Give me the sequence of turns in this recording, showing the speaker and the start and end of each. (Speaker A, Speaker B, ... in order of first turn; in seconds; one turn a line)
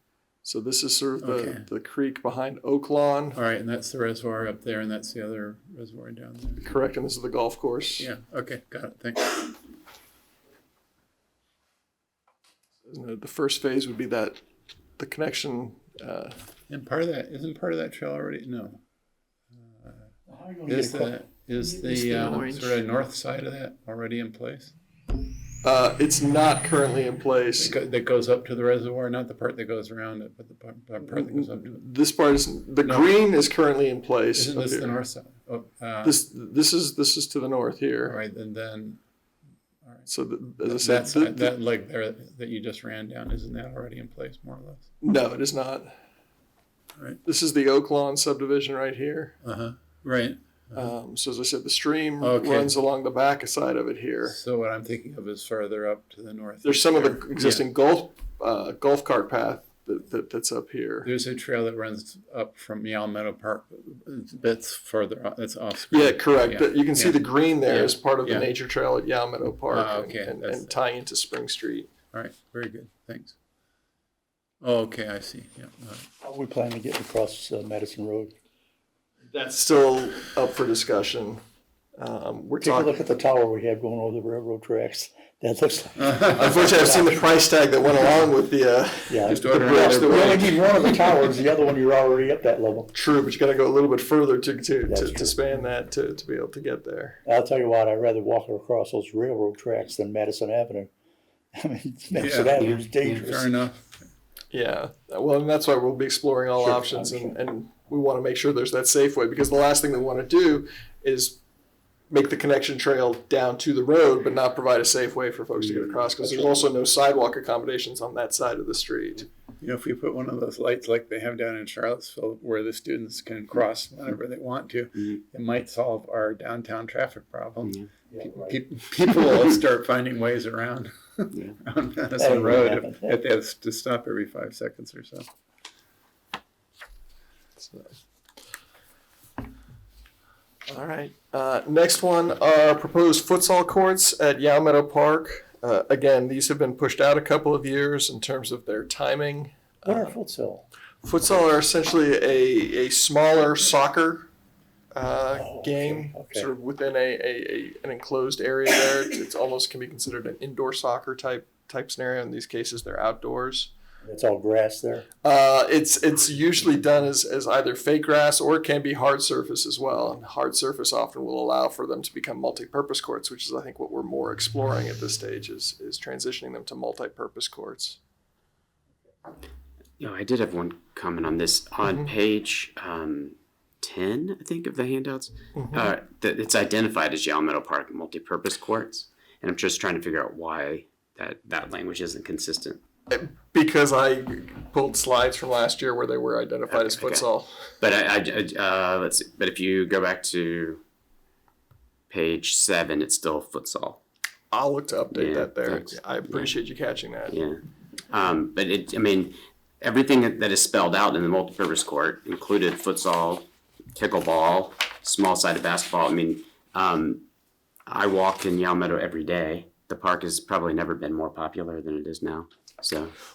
Speaker A: 0.4-3.4
Speaker B: 1.2-1.7
Speaker B: 3.4-6.7
Speaker A: 6.6-8.1
Speaker B: 8.0-9.6
Speaker A: 12.9-14.4
Speaker A: 15.0-16.4
Speaker B: 16.7-18.8
Speaker B: 19.5-20.1
Speaker C: 20.3-21.7
Speaker B: 20.7-24.7
Speaker A: 21.9-22.8
Speaker A: 25.6-27.8
Speaker B: 27.6-31.8
Speaker A: 31.1-34.9
Speaker B: 32.8-33.1
Speaker B: 34.4-36.2
Speaker A: 36.0-38.1
Speaker B: 38.0-39.0
Speaker A: 40.1-41.6
Speaker B: 40.6-44.9
Speaker A: 45.0-46.0
Speaker A: 47.2-49.4
Speaker B: 49.4-50.9
Speaker A: 50.7-54.4
Speaker B: 52.2-52.7
Speaker B: 54.3-57.7
Speaker A: 56.6-61.1
Speaker B: 61.0-68.5
Speaker A: 65.9-71.9
Speaker B: 69.7-70.7
Speaker B: 72.1-73.4
Speaker B: 74.6-76.1
Speaker C: 76.2-78.3
Speaker A: 79.3-81.4
Speaker A: 82.0-83.0
Speaker C: 82.6-87.2
Speaker B: 86.0-86.5
Speaker A: 86.3-90.6
Speaker C: 89.1-92.9
Speaker B: 89.2-90.5
Speaker A: 92.9-97.2
Speaker C: 94.9-95.4
Speaker C: 97.2-100.9
Speaker C: 101.5-103.5
Speaker B: 102.2-103.9
Speaker D: 102.6-103.1
Speaker A: 104.5-111.4
Speaker C: 106.6-107.4
Speaker A: 112.1-119.3
Speaker D: 115.6-116.0
Speaker B: 119.6-135.3
Speaker D: 127.6-127.9
Speaker C: 128.1-128.6
Speaker C: 132.2-133.2
Speaker A: 137.6-137.9
Speaker A: 140.7-150.1
Speaker C: 149.8-150.6
Speaker A: 151.0-154.3
Speaker A: 154.9-163.7
Speaker C: 155.3-156.5
Speaker C: 164.0-165.1
Speaker A: 165.2-178.0
Speaker D: 180.0-192.8
Speaker A: 185.6-185.9
Speaker A: 193.1-197.7
Speaker D: 196.7-197.3
Speaker D: 197.8-200.8
Speaker D: 202.1-204.0
Speaker A: 204.5-207.4
Speaker D: 205.1-206.5
Speaker D: 207.3-217.2
Speaker D: 217.9-223.1